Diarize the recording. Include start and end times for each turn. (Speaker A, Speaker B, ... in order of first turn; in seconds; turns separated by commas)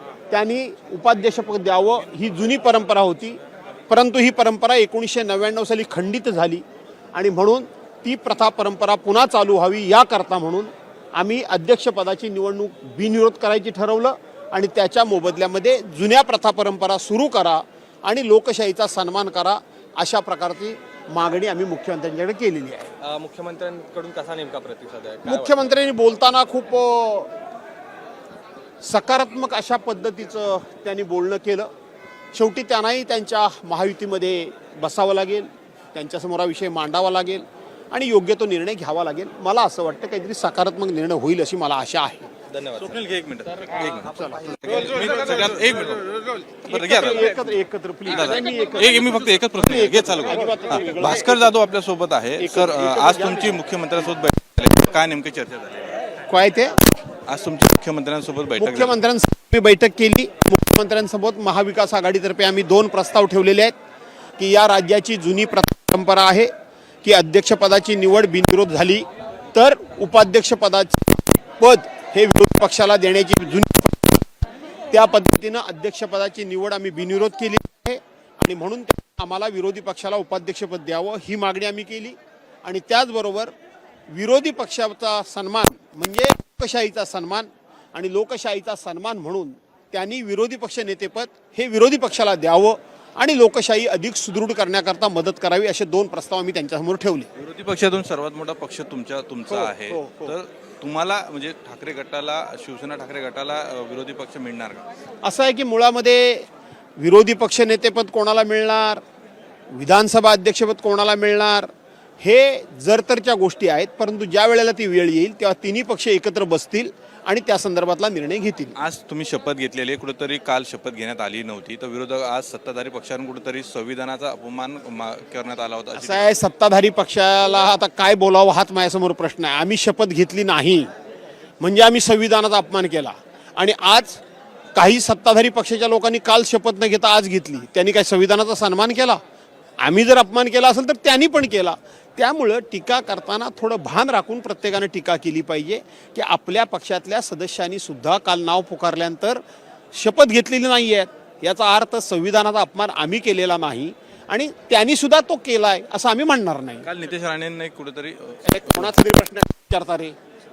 Speaker A: 0.3-22.9, Speaker B: 23.0-25.6, Speaker A: 25.2-27.3, Speaker A: 28.8-31.7, Speaker A: 32.3-42.3, Speaker B: 42.5-42.8, Speaker C: 42.6-47.5, Speaker A: 46.7-51.5, Speaker C: 48.1-56.0, Speaker A: 52.4-53.6, Speaker A: 56.3-56.8, Speaker C: 57.3-59.0, Speaker A: 58.6-63.8, Speaker A: 64.4-66.5, Speaker A: 67.0-74.2, Speaker A: 74.9-83.5, Speaker A: 84.1-97.3, Speaker C: 97.4-104.8, Speaker A: 99.5-100.4, Speaker A: 105.2-106.5, Speaker A: 107.0-109.0, Speaker A: 109.7-111.7, Speaker A: 112.2-118.8, Speaker C: 118.8-126.4, Speaker A: 126.0-130.9, Speaker A: 131.6-134.2, Speaker A: 134.8-139.2, Speaker A: 139.8-149.4, Speaker A: 149.9-156.9, Speaker C: 156.8-158.9, Speaker A: 158.4-160.2